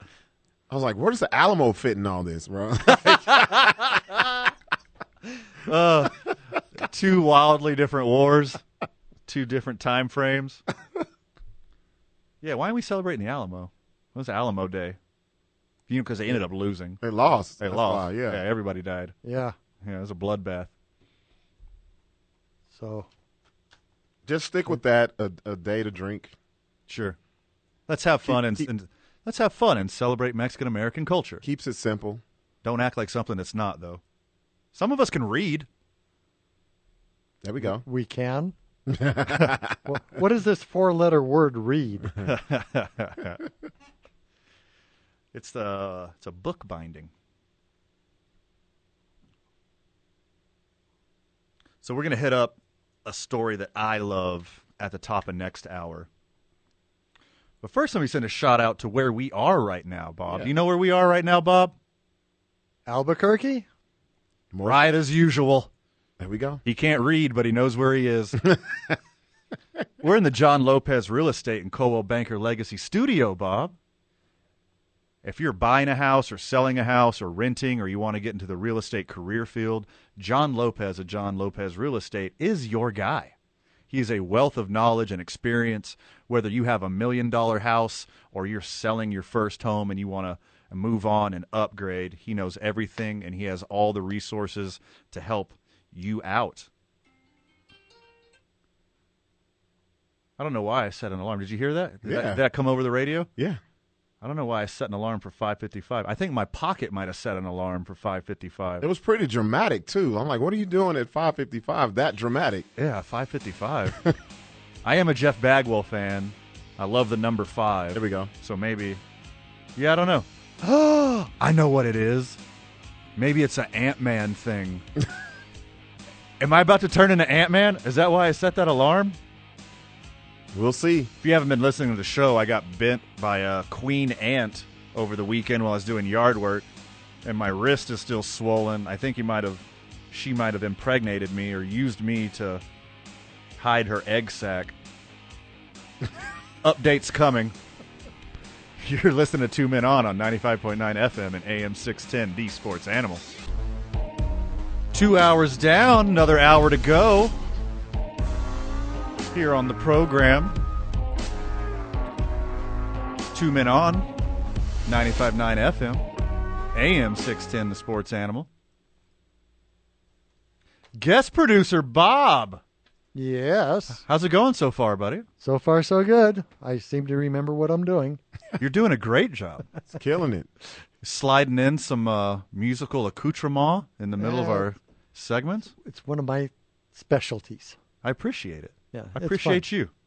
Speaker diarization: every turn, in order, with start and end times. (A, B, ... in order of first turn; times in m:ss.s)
0:00.7-0:03.9 A
0:03.0-0:03.9 B
0:05.6-0:06.2 B
0:06.8-0:08.6 B
0:09.3-0:10.6 B
0:12.4-0:15.0 B
0:15.9-0:17.0 B
0:17.0-0:18.4 A
0:17.6-0:19.1 B
0:19.2-0:19.5 C
0:19.8-0:20.7 B
0:22.7-0:23.1 C
0:24.3-0:26.3 A
0:26.9-0:27.2 B
0:27.9-0:31.4 B
0:31.4-0:32.2 A
0:32.6-0:34.0 B
0:34.7-0:35.7 B
0:37.4-0:37.8 A
0:37.6-0:38.5 C
0:38.9-0:39.8 A
0:39.8-0:42.2 C
0:42.2-0:43.4 B
0:45.3-0:47.1 B
0:51.8-0:56.1 B
0:57.6-1:01.7 B
1:02.8-1:03.6 C
1:04.5-1:04.8 A
1:04.6-1:05.7 B
1:06.2-1:06.6 A
1:06.6-1:08.4 B
1:10.0-1:13.7 B
1:15.2-1:23.3 B
1:23.9-1:36.7 B
1:40.4-1:43.3 B
1:42.0-1:42.4 A
1:44.2-1:48.8 B
1:48.8-1:52.7 A
1:52.8-1:54.1 B
1:54.8-1:59.0 B
1:57.9-1:58.3 A
1:59.8-2:02.4 B
2:03.2-2:04.8 B
2:06.4-2:09.2 B
2:10.5-2:11.1 A
2:11.2-2:16.6 B
2:17.2-2:22.6 B
2:23.6-2:24.7 B
2:26.6-2:27.5 B
2:28.8-2:33.2 B
2:34.9-2:37.3 B
2:39.3-2:40.6 B
2:43.3-2:44.1 B
2:44.8-2:46.0 B
2:46.7-2:48.5 B
2:50.9-2:52.6 B
2:53.1-2:54.0 C
2:54.0-2:55.2 B
2:55.4-2:58.2 C
2:58.6-2:59.6 B
2:59.9-3:00.5 A
3:01.0-3:05.7 B
3:04.2-3:04.7 C
3:05.8-3:07.8 C
3:08.0-3:09.9 B
3:08.9-3:09.6 C